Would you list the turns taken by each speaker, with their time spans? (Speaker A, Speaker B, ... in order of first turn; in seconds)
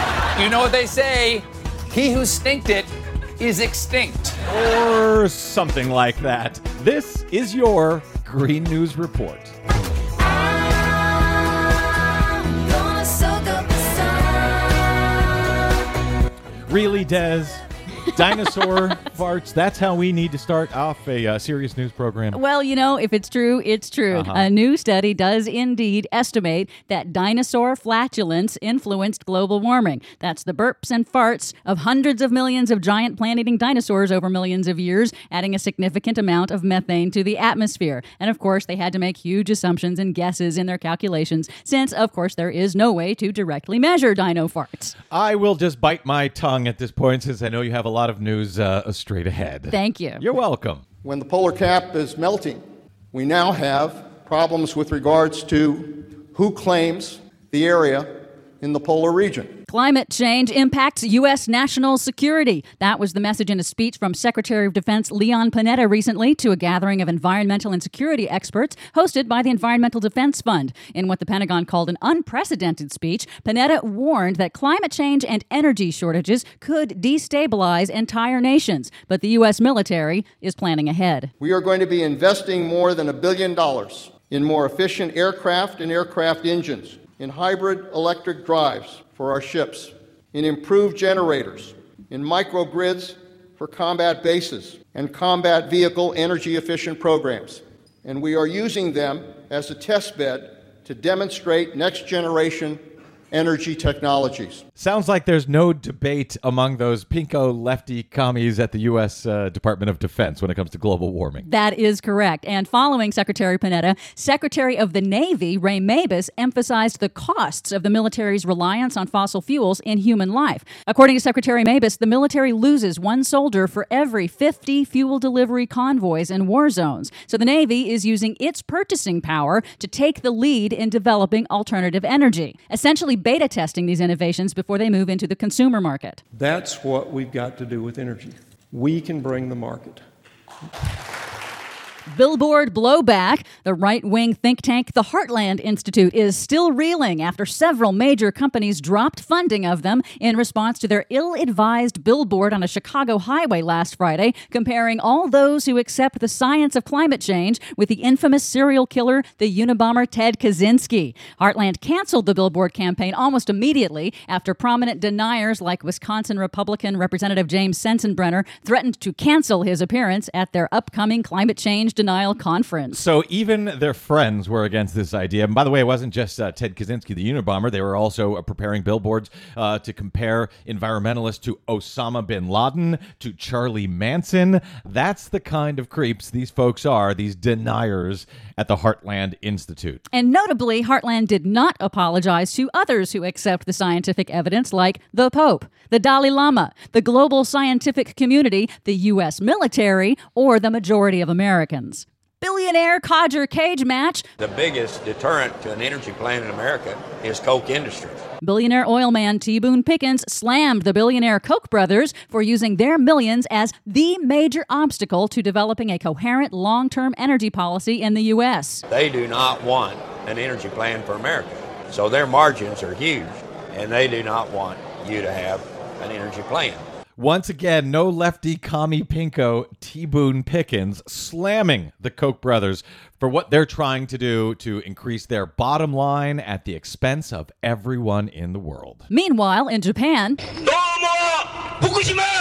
Speaker A: 0.4-2.9, 3.4-4.3
Speaker B: 4.5-9.5, 16.7-22.4, 24.1-24.5, 45.1-50.8, 104.8-111.5, 172.9-190.0, 227.2-239.1
Speaker C: 13.1-13.6, 22.3-44.9, 49.7-50.2, 59.7-81.3, 111.4-136.2, 142.1-173.0, 190.1-204.2, 208.4-218.8, 239.1-240.4
Speaker D: 51.0-52.6, 53.1-59.5, 81.4-104.6
Speaker E: 136.3-140.0
Speaker F: 204.4-208.2, 218.9-226.8